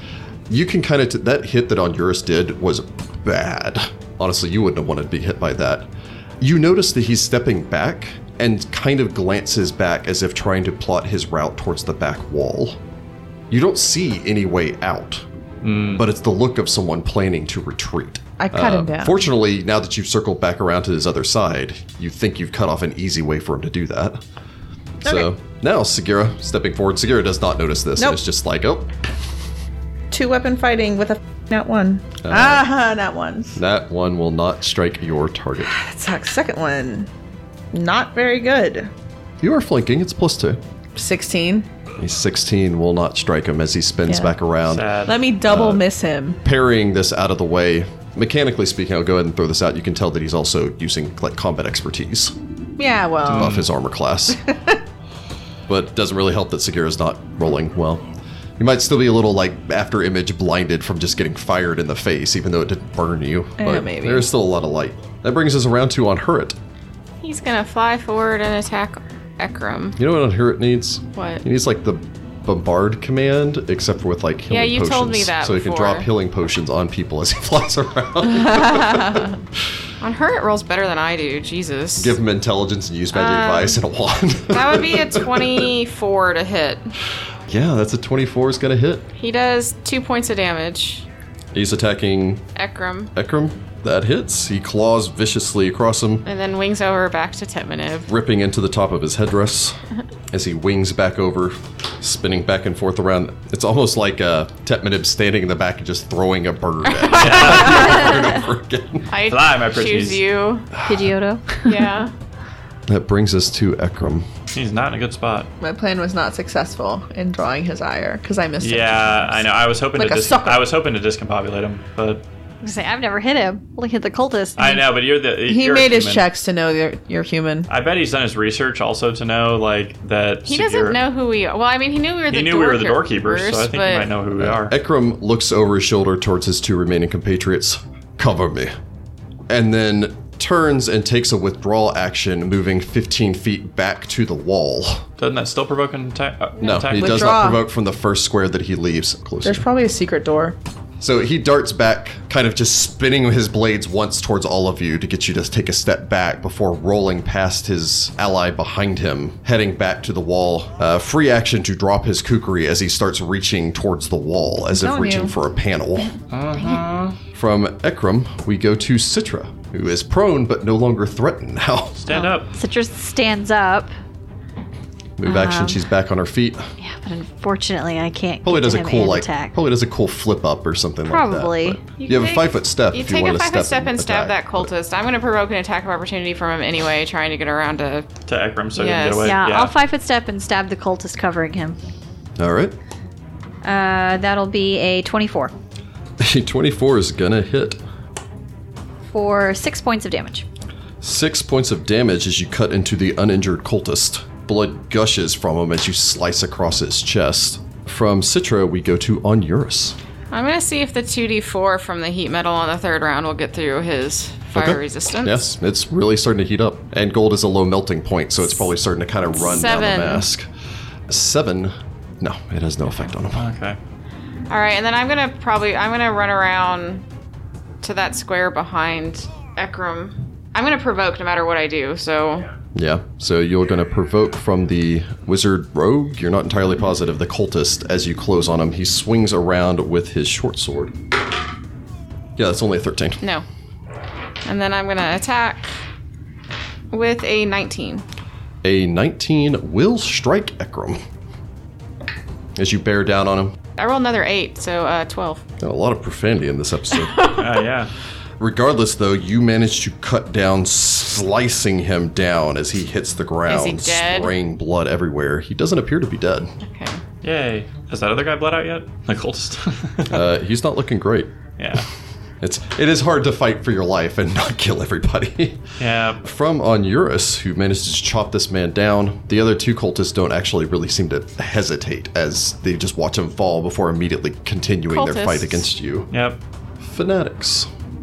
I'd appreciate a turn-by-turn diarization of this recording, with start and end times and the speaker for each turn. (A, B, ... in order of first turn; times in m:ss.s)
0:00.5-0:05.9 A
0:06.4-0:12.8 A
0:13.5-0:15.3 A
0:15.6-0:16.0 B
0:15.9-0:24.2 A
0:18.4-0:19.2 C
0:25.0-0:28.9 A
0:30.1-0:33.6 C
0:32.2-0:32.7 A
0:33.6-0:35.7 A
0:35.6-0:37.1 C
0:37.7-0:38.9 C
0:39.4-0:40.6 A
0:41.0-0:41.7 C
0:42.0-0:44.9 A
0:44.1-0:44.3 C
0:44.6-0:45.2 B
0:45.1-0:46.4 C
0:45.4-0:45.8 A
0:46.4-0:52.4 A
0:52.8-0:53.6 C
0:53.3-0:53.7 B
0:53.3-0:54.4 A
0:55.7-0:58.0 A
0:58.6-1:06.6 A
1:03.6-1:04.2 C
1:07.2-1:10.0 D
1:10.0-1:19.3 A
1:11.2-1:11.4 D
1:14.5-1:16.1 D
1:20.0-1:22.1 D
1:22.0-1:25.7 A
1:23.1-1:23.8 D
1:24.5-1:26.9 D
1:27.5-1:29.1 A
1:29.2-1:31.0 D
1:31.5-1:32.5 A
1:32.6-1:33.1 D
1:33.2-1:36.3 A
1:36.3-1:38.1 D
1:38.1-1:39.8 A
1:40.3-1:49.1 A
1:47.0-1:47.4 D
1:47.2-1:48.0 B
1:49.1-1:50.7 D
1:49.3-1:50.2 B
1:50.8-1:51.8 E
1:51.6-1:52.1 D
1:52.9-1:54.3 A
1:54.5-1:55.5 B
1:55.6-1:59.2 C
1:58.6-2:02.2 B
2:00.0-2:00.6 C
2:02.6-2:04.9 E
2:04.6-2:06.3 B
2:05.5-2:07.7 C
2:07.7-2:11.0 B
2:10.5-2:14.1 D
2:12.3-2:14.7 B
2:14.4-2:18.7 A
2:19.5-2:25.1 A
2:25.2-2:27.4 B
2:26.6-2:29.7 A
2:27.0-2:27.6 C
2:29.4-2:30.6 C
2:31.0-2:46.2 A
2:44.7-2:45.3 C
2:46.3-2:47.2 B
2:47.3-2:52.2 A
2:52.1-2:52.5 B
2:52.1-2:53.9 E
2:55.2-2:56.7 A
2:55.2-2:55.8 E
2:56.8-2:59.6 E
2:58.4-3:04.7 A
3:01.1-3:01.8 E
3:02.0-3:08.1 D
3:08.3-3:09.7 B
3:08.8-3:09.4 D
3:09.2-3:11.8 E
3:12.4-3:12.8 A
3:13.6-3:15.5 E
3:16.2-3:17.8 A
3:19.1-3:20.4 E
3:21.0-3:30.0 A
3:30.3-3:35.5 D
3:34.5-3:40.5 A
3:39.4-3:40.3 D
3:41.1-3:43.5 A
3:43.3-3:43.8 B
3:44.5-3:47.0 D
3:47.8-3:52.5 D
3:52.7-4:01.0 A
4:02.4-4:03.2 A
4:04.4-4:05.7 D
4:06.9-4:08.0 D
4:08.6-4:11.0 A
4:12.6-4:13.6 A
4:13.8-4:15.4 D
4:15.6-4:17.4 A
4:17.1-4:17.4 D
4:17.3-4:17.9 B
4:18.4-4:26.5 A
4:23.5-4:24.3 D
4:26.6-4:27.0 D
4:27.2-4:30.2 B
4:30.1-4:31.3 A
4:31.6-4:31.9 B
4:32.4-4:35.7 A
4:35.8-4:36.2 B
4:36.2-4:46.1 A
4:44.9-4:45.6 D
4:46.1-4:46.4 B
4:46.8-4:47.7 A